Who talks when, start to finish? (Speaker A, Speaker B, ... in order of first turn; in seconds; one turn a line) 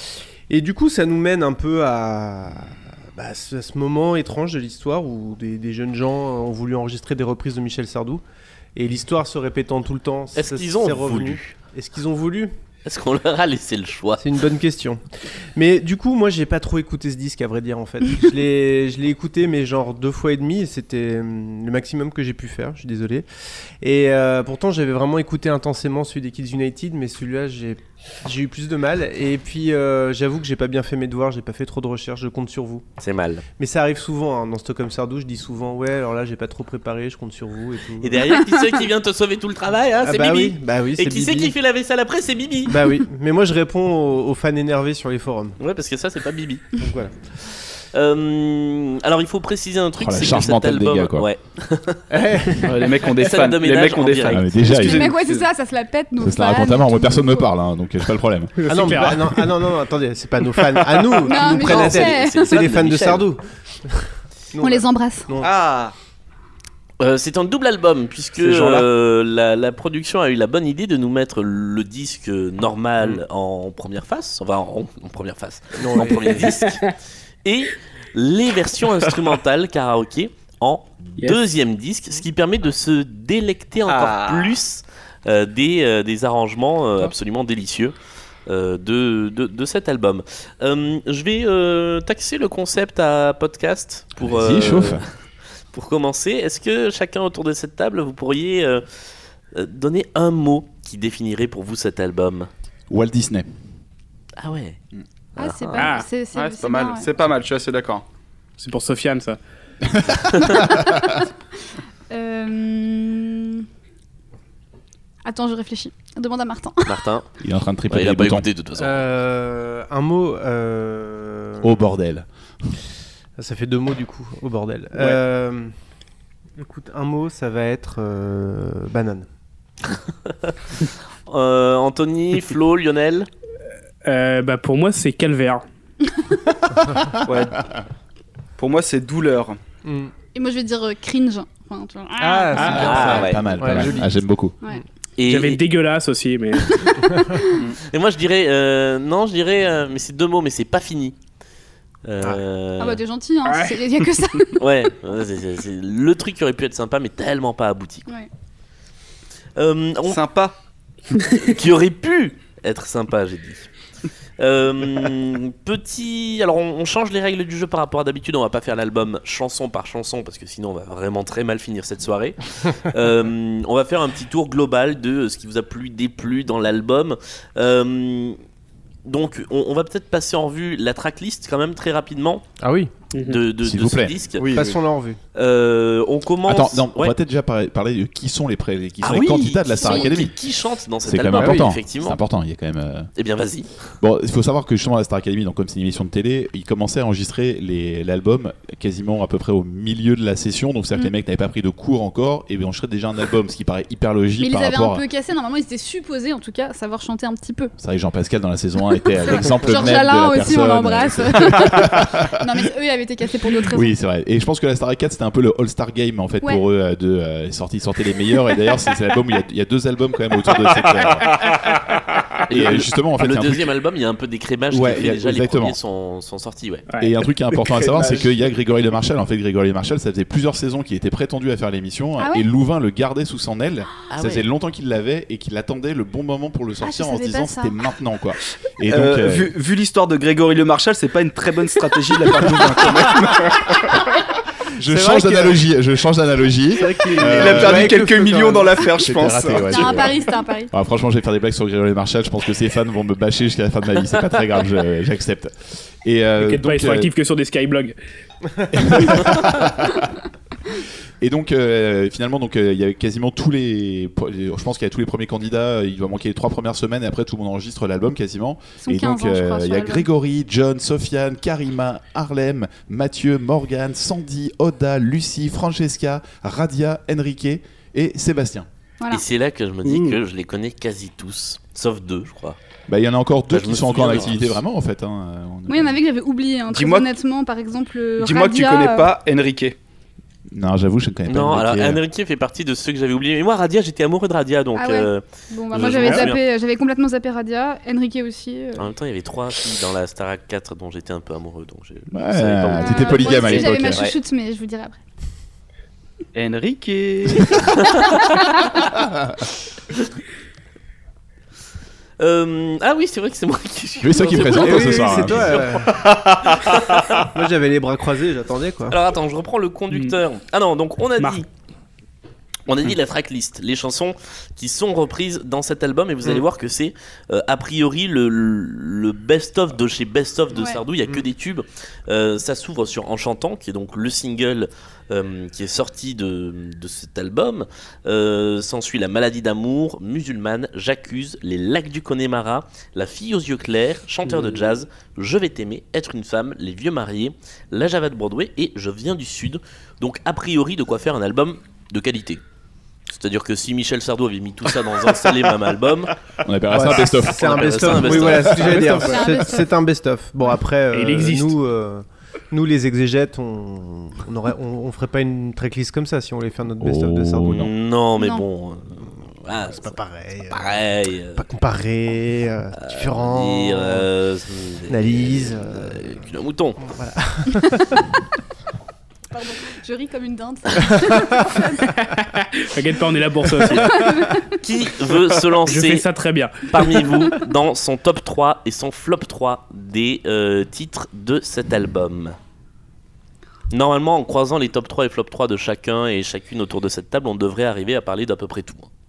Speaker A: 0.5-8.2
Speaker A: 8.8-12.5
Speaker B: 10.3-11.6
Speaker B: 12.8-14.3
Speaker A: 14.2-15.0
Speaker A: 15.6-23.2
Speaker A: 23.8-32.9
Speaker B: 33.0-33.4
Speaker A: 33.6-38.4
Speaker B: 38.0-42.8
Speaker A: 40.0-41.5
Speaker A: 42.7-45.6
Speaker B: 45.6-46.8
Speaker A: 46.8-47.1
Speaker B: 47.4-52.1
Speaker C: 50.0-51.3
Speaker A: 52.1-52.8
Speaker D: 52.6-55.5
Speaker B: 52.9-54.5
Speaker C: 54.3-55.1
Speaker E: 54.7-57.5
Speaker C: 56.2-59.1
Speaker F: 58.6-59.5
Speaker A: 58.7-65.5
Speaker B: 61.2-63.3
Speaker E: 61.2-62.6
Speaker E: 64.6-65.3
Speaker D: 65.4-65.9
Speaker B: 67.0-76.9
Speaker A: 68.5-68.8
Speaker A: 75.8-76.4
Speaker F: 76.4-76.9
Speaker B: 77.4-87.9
Speaker D: 83.9-84.6
Speaker B: 88.5-95.1
Speaker C: 94.2-95.0
Speaker B: 95.7-98.8
Speaker B: 99.5-102.5
Speaker C: 102.9-103.5
Speaker B: 104.4-104.8
Speaker E: 105.4-107.1
Speaker B: 105.4-105.9
Speaker F: 105.8-106.1
Speaker D: 106.3-108.0
Speaker F: 108.6-109.4
Speaker C: 109.9-111.2
Speaker E: 112.1-113.7
Speaker E: 115.2-117.0
Speaker B: 116.9-117.3
Speaker C: 117.4-118.5
Speaker B: 117.9-119.0
Speaker A: 118.8-121.7
Speaker C: 121.6-122.3
Speaker A: 123.4-125.7
Speaker A: 126.6-129.3
Speaker B: 129.8-133.3
Speaker F: 134.0-135.6
Speaker D: 137.2-137.7
Speaker D: 138.6-139.6
Speaker A: 139.8-140.1
Speaker E: 140.3-143.2
Speaker A: 142.2-144.1
Speaker F: 142.6-143.1
Speaker C: 142.6-144.5
Speaker B: 142.7-143.9
Speaker B: 145.2-145.6
Speaker F: 145.2-147.1
Speaker E: 147.3-147.6
Speaker D: 147.5-147.8
Speaker B: 147.8-151.2
Speaker B: 152.0-153.0
Speaker E: 152.8-154.7
Speaker F: 153.4-153.8
Speaker B: 154.6-158.1
Speaker B: 159.6-160.2
Speaker D: 160.1-160.5
Speaker B: 161.3-163.7
Speaker B: 164.4-178.4
Speaker B: 179.0-182.4
Speaker A: 182.6-182.9
Speaker F: 183.1-183.4
Speaker B: 183.2-184.7
Speaker C: 183.6-184.8
Speaker A: 184.4-185.2
Speaker B: 185.4-187.1
Speaker C: 186.5-190.3
Speaker B: 189.0-192.2
Speaker E: 189.8-190.2
Speaker C: 191.1-193.1
Speaker A: 191.4-191.7
Speaker B: 193.2-193.8
Speaker C: 194.0-205.0
Speaker E: 204.4-207.7
Speaker C: 207.8-212.5
Speaker E: 209.3-213.9
Speaker C: 213.7-221.6
Speaker C: 222.5-223.7
Speaker B: 222.5-226.9
Speaker C: 224.7-225.8
Speaker F: 226.9-227.2
Speaker C: 227.0-239.5
Speaker E: 232.2-232.4
Speaker B: 234.1-234.4
Speaker E: 236.8-237.8
Speaker D: 238.9-243.9
Speaker C: 244.8-248.0
Speaker A: 244.8-245.6
Speaker A: 246.8-248.8
Speaker D: 247.2-250.1
Speaker C: 248.9-257.1
Speaker E: 249.6-250.7
Speaker F: 256.4-258.0
Speaker C: 258.7-260.1
Speaker C: 261.2-278.7
Speaker E: 268.8-270.1
Speaker B: 279.1-282.6
Speaker C: 282.9-286.0
Speaker B: 283.5-284.6
Speaker E: 285.7-289.1
Speaker D: 286.7-287.1
Speaker D: 288.2-289.8
Speaker C: 290.5-292.0
Speaker B: 291.3-296.4
Speaker E: 294.8-298.9
Speaker F: 295.8-296.3
Speaker B: 298.8-304.1
Speaker C: 302.1-304.0
Speaker E: 302.8-305.0
Speaker D: 306.4-307.8
Speaker B: 307.9-308.2
Speaker C: 308.9-309.4
Speaker B: 312.2-315.8
Speaker C: 314.0-315.8
Speaker A: 314.4-316.1
Speaker B: 316.5-317.3
Speaker A: 317.2-319.0
Speaker B: 318.9-321.5
Speaker F: 321.2-321.4
Speaker B: 322.7-352.4
Speaker E: 330.5-330.8
Speaker B: 353.1-356.1
Speaker C: 356.4-358.9
Speaker A: 356.7-367.7
Speaker B: 356.9-359.0
Speaker E: 358.8-359.7
Speaker F: 360.9-361.6
Speaker C: 366.8-367.7
Speaker B: 367.5-370.0
Speaker E: 368.2-368.4
Speaker A: 369.7-374.1
Speaker B: 370.5-371.4
Speaker B: 372.8-376.8
Speaker A: 374.9-376.2
Speaker A: 376.8-378.0
Speaker E: 379.3-381.9
Speaker F: 382.1-384.2
Speaker E: 383.8-384.6
Speaker B: 384.5-386.1
Speaker F: 385.6-387.3
Speaker B: 386.7-392.4
Speaker B: 393.7-398.9